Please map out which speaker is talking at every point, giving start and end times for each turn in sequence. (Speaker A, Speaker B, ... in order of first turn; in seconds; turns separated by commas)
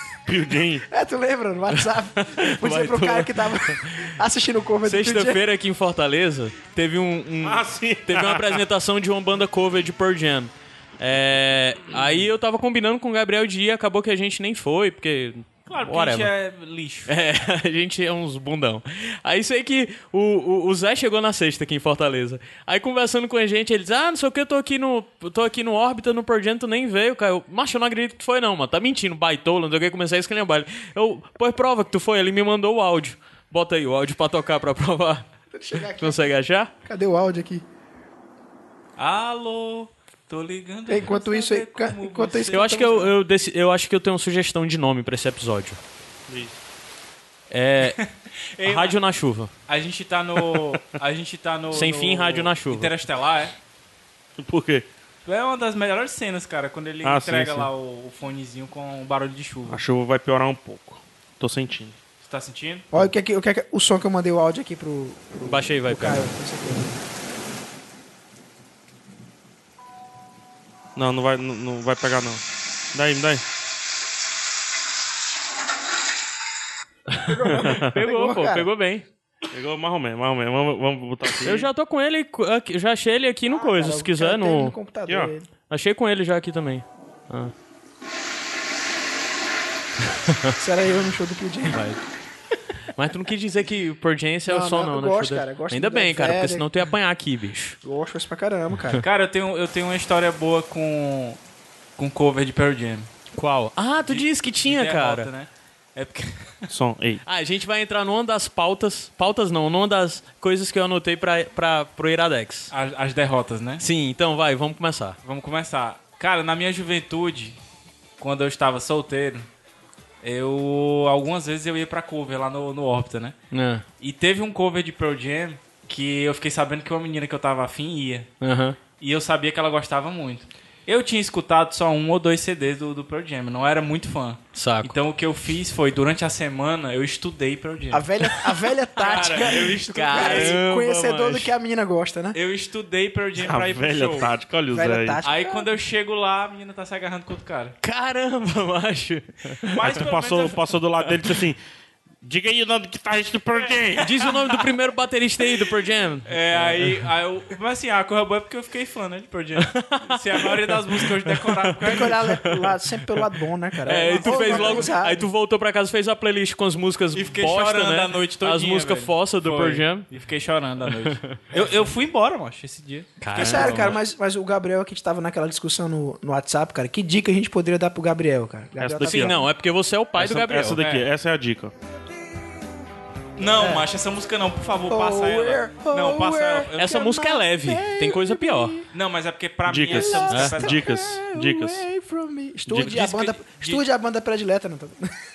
Speaker A: 0.3-0.8, Speaker B: 0.9-5.4, Speaker C: 2.2-4.1, Speaker C: 4.8-16.3, Speaker A: 7.4-8.6, Speaker D: 15.7-17.1, Speaker C: 17.1-35.2, Speaker B: 35.5-36.3, Speaker C: 36.0-36.7, Speaker B: 36.8-37.6, Speaker D: 39.0-43.0, Speaker B: 40.9-43.1, Speaker C: 42.5-45.8, Speaker A: 46.3-46.6, Speaker C: 47.5-48.0, Speaker D: 48.5-49.0, Speaker C: 48.6-49.5, Speaker D: 49.7-53.5, Speaker C: 51.7-53.0, Speaker A: 54.4-54.9, Speaker D: 55.2-59.8, Speaker A: 57.0-57.7, Speaker A: 59.7-62.0, Speaker D: 62.2-62.9, Speaker B: 62.9-67.0, Speaker C: 65.4-66.3, Speaker A: 71.0-73.4, Speaker C: 77.1-79.0, Speaker B: 77.2-78.7, Speaker A: 77.5-77.9, Speaker A: 79.5-81.7, Speaker C: 81.4-84.7, Speaker B: 83.5-85.5, Speaker A: 85.1-85.3, Speaker C: 85.7-87.5, Speaker C: 90.2-90.5, Speaker B: 90.6-91.8, Speaker C: 91.7-92.0, Speaker C: 92.9-97.8, Speaker B: 94.4-96.7, Speaker B: 97.8-99.0, Speaker D: 99.0-101.4, Speaker D: 102.0-103.1, Speaker C: 103.3-105.3, Speaker D: 104.0-106.7, Speaker A: 106.7-107.2, Speaker C: 107.2-112.7, Speaker D: 112.7-113.8, Speaker C: 113.8-115.2, Speaker D: 115.2-117.6, Speaker D: 118.2-119.5, Speaker D: 120.2-123.3, Speaker C: 123.5-123.8, Speaker D: 124.0-128.3, Speaker C: 128.4-128.8, Speaker D: 129.0-140.7, Speaker C: 134.5-134.9, Speaker B: 137.9-142.4, Speaker C: 140.0-141.3, Speaker D: 142.3-144.3, Speaker A: 143.4-145.2, Speaker B: 144.7-145.7, Speaker D: 145.2-147.7, Speaker C: 147.8-149.7, Speaker D: 149.7-150.6, Speaker A: 149.8-151.6, Speaker A: 152.2-154.1, Speaker D: 153.6-154.0, Speaker C: 154.0-157.1, Speaker D: 156.2-162.2, Speaker C: 159.6-162.7, Speaker B: 161.8-165.3, Speaker D: 163.8-164.9, Speaker C: 163.9-170.1, Speaker D: 167.1-174.0, Speaker C: 170.9-171.4, Speaker C: 173.2-173.9, Speaker B: 173.3-179.4, Speaker A: 178.8-179.4, Speaker C: 179.0-180.8, Speaker A: 180.2-181.7, Speaker D: 180.8-181.1, Speaker D: 183.4-186.9, Speaker B: 183.4-183.9, Speaker B: 184.9-188.8, Speaker C: 186.8-188.8, Speaker D: 188.9-190.8, Speaker A: 189.7-191.9, Speaker B: 189.9-195.1, Speaker A: 192.7-193.1, Speaker D: 192.7-193.8